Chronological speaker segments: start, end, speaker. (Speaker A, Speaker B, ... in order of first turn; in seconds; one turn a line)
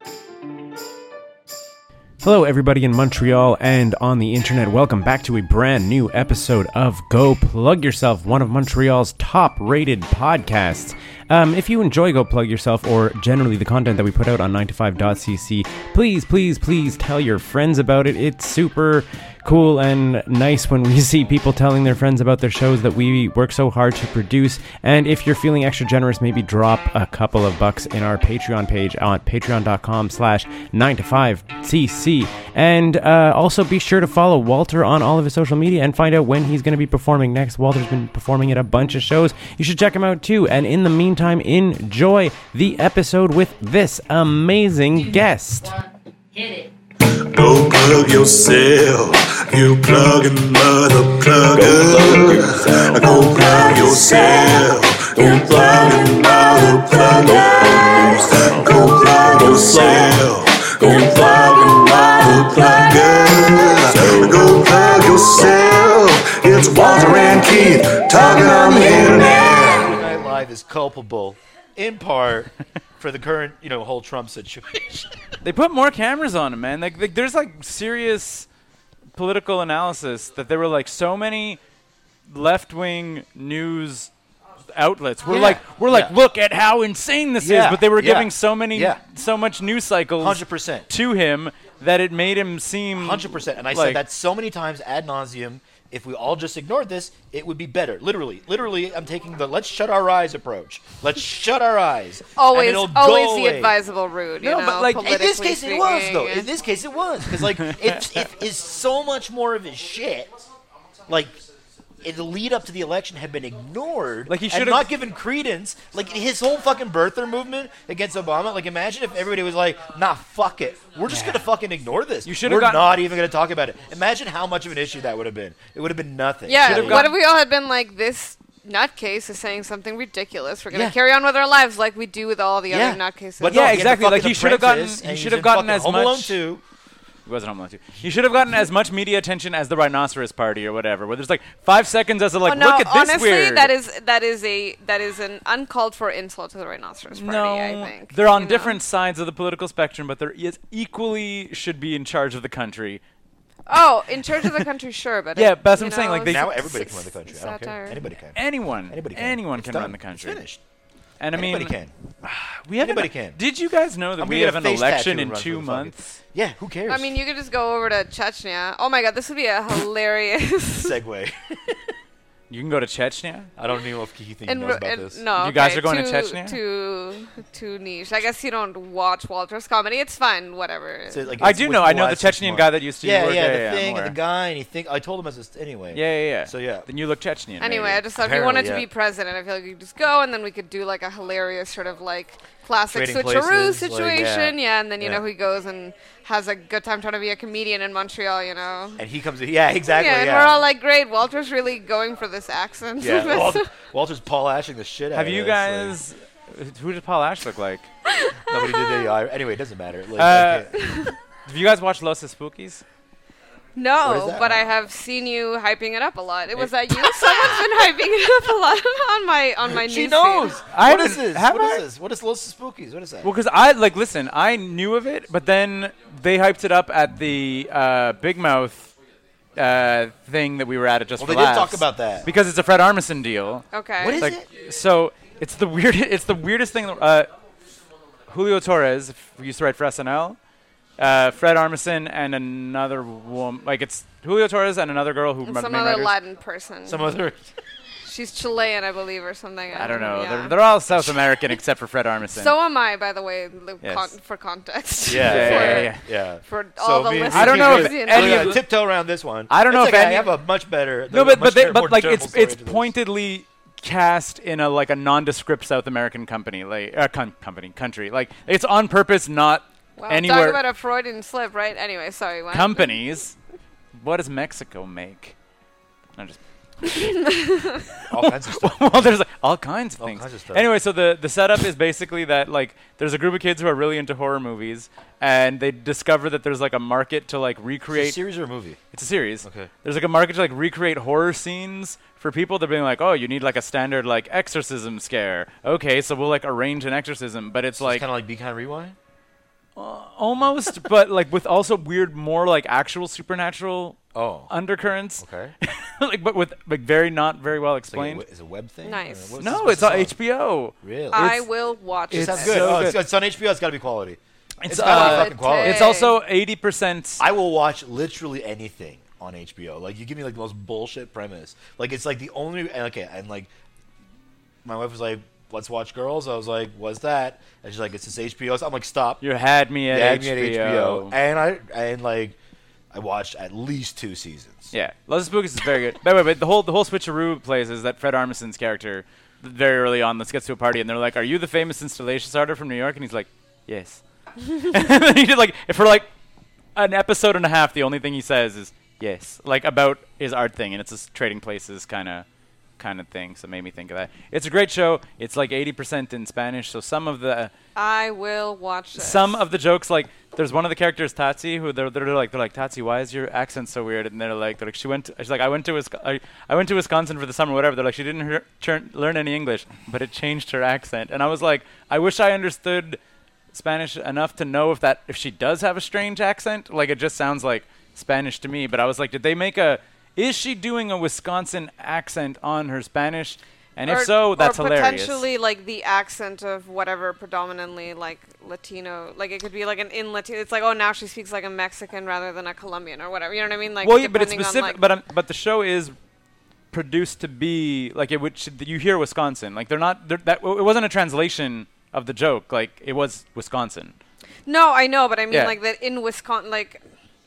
Speaker A: 2.2-45.8
Speaker B: 46.5-69.9
Speaker C: 69.3-75.1
Speaker D: 75.4-78.5
Speaker D: 79.2-81.6
Speaker D: 82.3-84.1
Speaker D: 84.7-94.0
Speaker C: 85.2-86.1
Speaker C: 87.4-89.0
Speaker C: 90.2-90.9
Speaker C: 92.9-103.8
Speaker E: 102.3-106.5
Speaker D: 104.4-105.0
Speaker C: 105.0-110.3
Speaker C: 111.1-111.4
Speaker C: 112.0-127.1
Speaker D: 114.3-114.9
Speaker D: 121.1-121.5
Speaker D: 122.2-123.0
Speaker E: 126.5-133.7
Speaker D: 126.6-127.1
Speaker C: 132.7-136.6
Speaker D: 133.4-136.4
Speaker D: 137.2-143.7
Speaker E: 142.5-148.8
Speaker D: 147.1-153.0
Speaker E: 153.7-158.0
Speaker D: 154.3-154.6
Speaker D: 155.3-156.5
Speaker C: 156.2-160.6
Speaker D: 158.3-160.4
Speaker D: 161.2-166.2
Speaker C: 161.3-161.9
Speaker C: 162.8-163.4
Speaker C: 164.2-167.2
Speaker E: 166.9-170.9
Speaker C: 170.7-171.8
Speaker D: 172.5-173.5
Speaker C: 173.6-175.2
Speaker E: 174.4-181.4
Speaker D: 175.4-176.6
Speaker C: 181.1-186.9
Speaker D: 181.4-184.2
Speaker D: 185.9-188.0
Speaker E: 187.6-199.0
Speaker C: 188.1-188.9
Speaker C: 192.9-195.2
Speaker C: 199.0-200.6
Speaker E: 199.8-203.7
Speaker C: 203.0-206.0
Speaker D: 205.1-207.9
Speaker E: 208.1-209.1
Speaker C: 208.4-210.7
Speaker D: 210.2-210.7
Speaker E: 210.7-211.2
Speaker D: 211.4-212.8
Speaker E: 213.8-220.5
Speaker C: 214.0-214.8
Speaker C: 219.7-223.3
Speaker D: 220.7-221.8
Speaker D: 223.2-228.9
Speaker D: 229.6-237.3
Speaker C: 231.2-232.3
Speaker E: 233.7-234.3
Speaker C: 234.0-234.4
Speaker D: 238.3-240.4
Speaker D: 241.0-246.2
Speaker E: 245.4-247.2
Speaker C: 246.8-247.4
Speaker E: 248.0-250.6
Speaker D: 249.8-252.5
Speaker E: 252.3-255.9
Speaker D: 253.8-254.1
Speaker C: 255.1-262.9
Speaker D: 255.2-256.0
Speaker E: 256.4-258.6
Speaker D: 257.3-258.6
Speaker D: 259.5-260.3
Speaker D: 261.1-270.6
Speaker E: 270.0-273.0
Speaker D: 272.5-273.4
Speaker D: 273.9-275.4
Speaker D: 276.2-277.2
Speaker E: 276.8-277.9
Speaker C: 278.1-279.2
Speaker D: 278.1-288.2
Speaker C: 280.0-280.7
Speaker C: 287.9-288.8
Speaker D: 288.9-298.0
Speaker C: 289.4-289.7
Speaker C: 297.8-298.9
Speaker D: 299.8-308.2
Speaker C: 304.1-304.5
Speaker C: 305.2-305.5
Speaker C: 307.9-310.1
Speaker E: 308.8-309.3
Speaker D: 309.4-311.4
Speaker C: 310.8-311.4
Speaker E: 311.1-312.8
Speaker D: 312.1-313.0
Speaker C: 312.1-315.9
Speaker D: 314.6-317.2
Speaker E: 314.8-316.2
Speaker C: 317.2-323.5
Speaker C: 324.6-329.2
Speaker D: 329.2-331.1
Speaker C: 329.9-332.4
Speaker C: 332.9-334.7
Speaker D: 334.7-346.1
Speaker D: 346.7-352.2
Speaker D: 352.8-357.5
Speaker E: 357.8-359.4
Speaker D: 358.9-373.0
Speaker D: 373.5-385.2
Speaker E: 383.9-394.8
Speaker D: 393.8-395.9
Speaker D: 396.7-403.9
Speaker E: 404.5-406.8